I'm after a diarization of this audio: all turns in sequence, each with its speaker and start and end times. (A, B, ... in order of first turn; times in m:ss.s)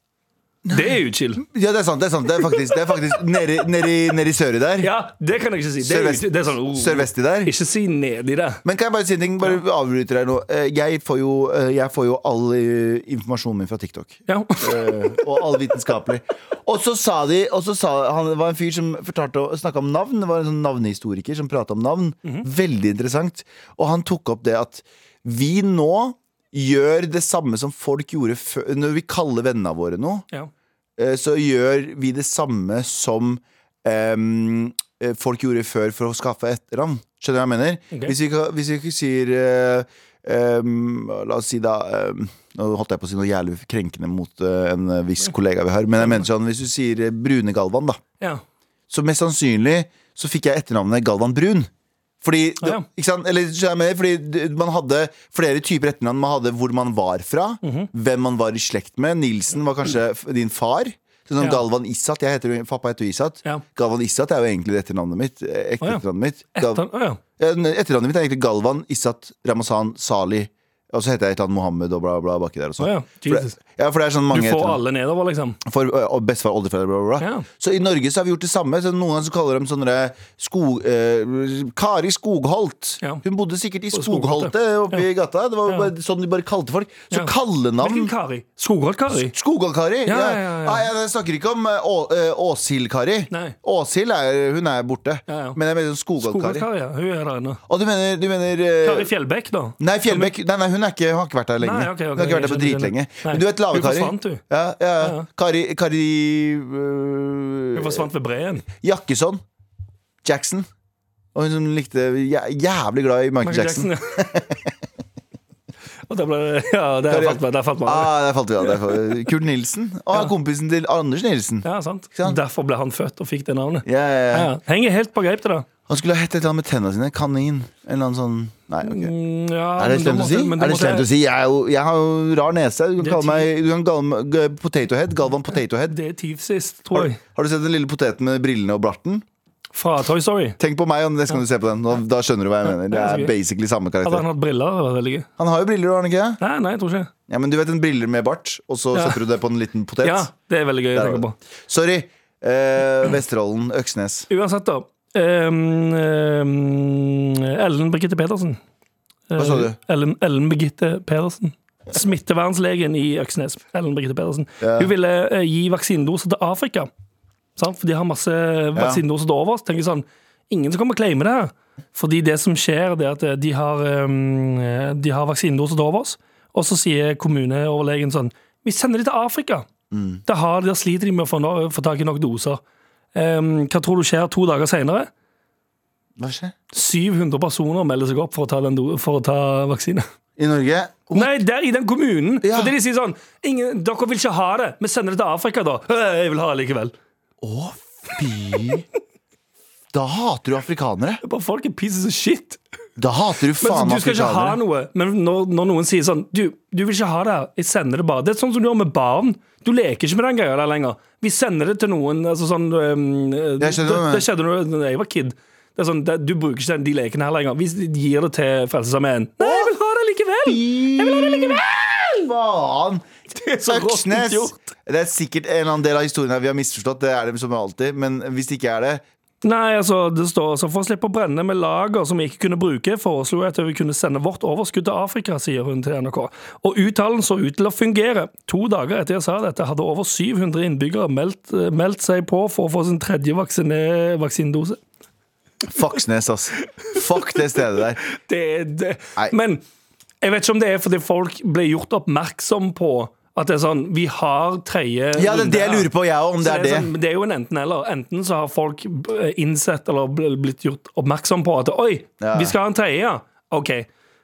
0:00.6-0:04.9 A
0:00.7-0:01.4 B
0:04.8-0:08.6 B
0:05.8-0:07.5 A
0:08.6-0:30.3 A
0:14.3-0:15.3 B
0:31.0-0:48.0 A
0:37.9-0:38.2 B
0:46.0-0:46.3 B
0:48.9-0:51.7 A
0:52.2-1:06.8 A
0:57.6-0:57.9 B
1:06.5-1:07.2 B
1:07.4-1:14.8 A
1:12.8-1:13.6 B
1:14.3-1:15.6 B
1:15.6-1:28.1 A
1:17.2-1:17.5 B
1:23.9-1:25.1 B
1:25.7-1:25.9 B
1:27.1-1:29.3 B
1:29.1-1:36.7 A
1:30.1-1:30.9 B
1:33.3-1:33.6 B
1:35.3-1:35.6 B
1:36.2-1:37.6 B
1:37.7-1:39.1 A
1:38.8-1:40.3 B
1:39.8-1:48.1 A
1:41.6-1:44.4 B
1:45.0-1:45.3 B
1:47.7-1:48.6 B
1:48.8-1:49.4 A
1:50.2-1:50.7 A
1:51.3-1:54.7 A
1:53.4-1:54.3 B
1:56.1-1:58.9 B
1:57.1-2:02.4 A
2:01.6-2:05.7 B
2:03.8-2:04.5 A
2:05.9-2:09.1 A
2:08.8-2:11.1 B
2:09.8-2:16.0 A
2:13.0-2:13.5 B
2:15.9-2:17.2 B
2:16.9-2:19.2 A
2:19.7-2:20.6 B
2:20.6-2:24.3 A
2:22.7-2:23.3 B
2:24.0-2:25.3 B
2:25.4-2:26.4 A
2:26.4-2:27.1 B
2:27.3-2:30.3 A
2:28.9-2:29.2 B
2:30.0-2:31.4 B
2:30.9-2:34.3 A
2:34.3-2:38.6 B
2:39.3-2:46.9 B
2:39.4-2:39.8 A
2:44.6-2:44.9 A
2:47.6-2:59.7 B
2:48.8-2:49.0 A
2:59.9-3:00.2 A
3:00.3-3:02.6 B
3:03.1-3:05.1 B
3:06.2-3:06.6 A
3:06.7-3:10.0 B
3:10.4-3:11.4 A
3:11.1-3:16.9 B
3:12.4-3:12.8 A
3:17.4-3:18.8 A
3:19.9-3:21.2 A
3:21.2-3:22.6 B
3:23.0-3:24.6 A
3:23.6-3:41.6 B
3:33.6-3:34.3 A
3:39.4-3:39.7 A
3:40.4-3:43.0 A
3:43.3-3:44.7 B
3:43.6-3:49.0 A
3:49.4-4:04.8 B
4:05.7-4:08.0 A
4:08.1-4:09.6 B
4:10.2-4:23.9 B
4:15.1-4:16.9 A
4:22.2-4:22.6 A